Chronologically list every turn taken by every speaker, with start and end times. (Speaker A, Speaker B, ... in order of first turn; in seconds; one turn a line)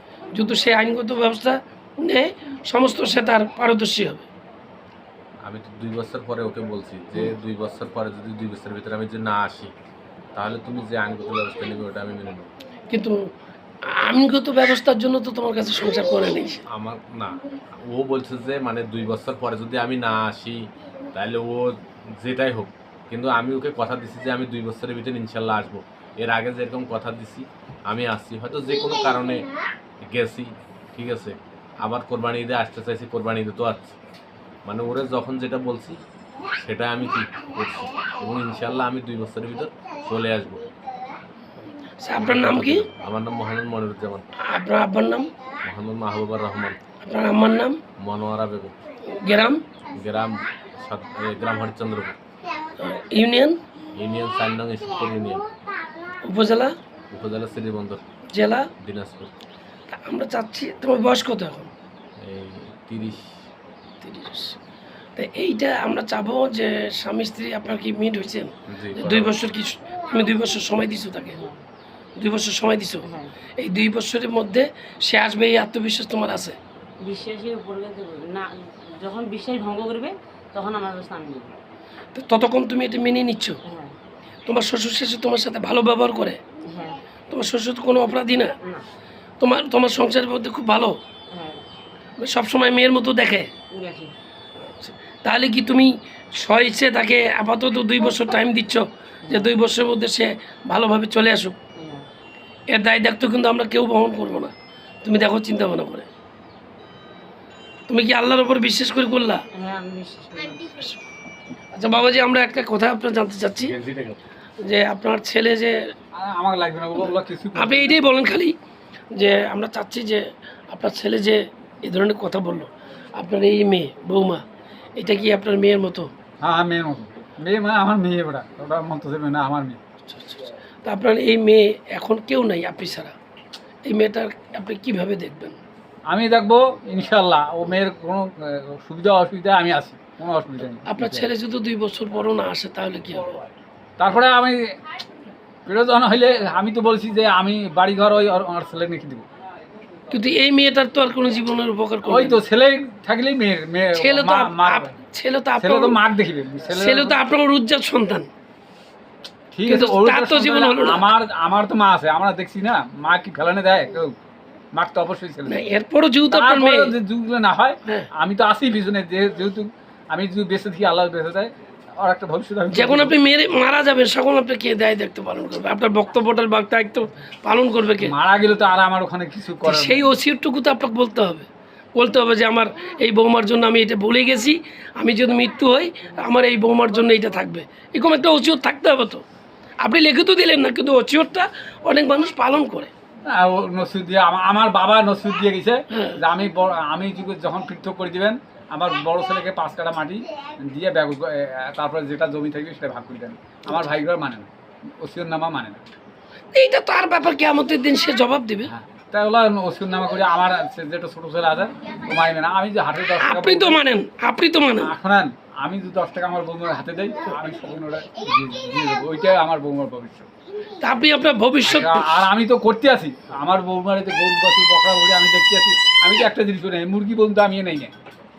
Speaker A: 0.3-4.2
Speaker B: 5.4-9.7
Speaker B: 10.3-12.5
Speaker A: 12.9-13.2
Speaker A: 13.9-16.6
Speaker B: 16.7-29.5
Speaker B: 30.0-33.9
Speaker B: 34.6-36.0
Speaker B: 36.6-40.7
Speaker A: 42.0-42.9
Speaker B: 42.2-44.3
Speaker A: 44.4-45.3
Speaker B: 45.6-46.8
Speaker A: 47.0-47.8
Speaker B: 48.0-48.8
Speaker A: 49.1-49.6
Speaker B: 49.9-52.1
Speaker A: 52.8-53.6
Speaker B: 53.9-55.5
Speaker A: 56.2-56.7
Speaker B: 57.1-58.0
Speaker A: 58.3-58.7
Speaker B: 58.8-59.3
Speaker A: 59.9-61.7
Speaker B: 62.2-63.3
Speaker A: 64.0-64.6
Speaker A: 65.2-71.4
Speaker B: 68.7-69.3
Speaker A: 72.2-73.0
Speaker C: 73.1-73.3
Speaker A: 73.6-76.6
Speaker C: 77.0-81.5
Speaker A: 82.1-83.6
Speaker C: 83.7-83.9
Speaker A: 84.5-86.4
Speaker C: 86.7-87.0
Speaker A: 87.3-88.5
Speaker A: 89.4-90.9
Speaker C: 91.3-91.6
Speaker A: 92.2-93.5
Speaker C: 93.8-94.1
Speaker A: 94.7-101.5
Speaker C: 99.2-99.5
Speaker C: 101.8-102.0
Speaker A: 102.7-106.1
Speaker A: 107.9-109.4
Speaker C: 109.6-110.8
Speaker A: 111.7-113.7
Speaker B: 113.6-114.2
Speaker A: 114.6-115.9
Speaker D: 116.1-118.0
Speaker A: 117.0-118.5
Speaker A: 119.1-124.4
Speaker A: 125.0-126.1
Speaker D: 126.4-129.8
Speaker A: 130.1-133.1
Speaker A: 133.8-135.6
Speaker D: 136.1-141.3
Speaker A: 140.9-143.3
Speaker D: 144.0-144.8
Speaker D: 145.7-149.2
Speaker A: 150.1-152.4
Speaker D: 152.0-155.0
Speaker A: 153.9-156.0
Speaker D: 155.6-157.2
Speaker A: 156.7-158.3
Speaker D: 159.5-164.1
Speaker A: 159.7-161.1
Speaker D: 164.7-165.6
Speaker A: 165.5-166.9
Speaker D: 166.3-173.2
Speaker A: 172.7-178.1
Speaker D: 178.0-180.2
Speaker A: 179.6-189.2
Speaker A: 189.8-192.9
Speaker D: 193.3-205.8
Speaker A: 195.9-196.2
Speaker A: 206.5-208.7
Speaker D: 208.7-213.8
Speaker A: 213.2-214.9
Speaker D: 214.8-220.3
Speaker A: 220.8-222.3
Speaker D: 221.6-227.9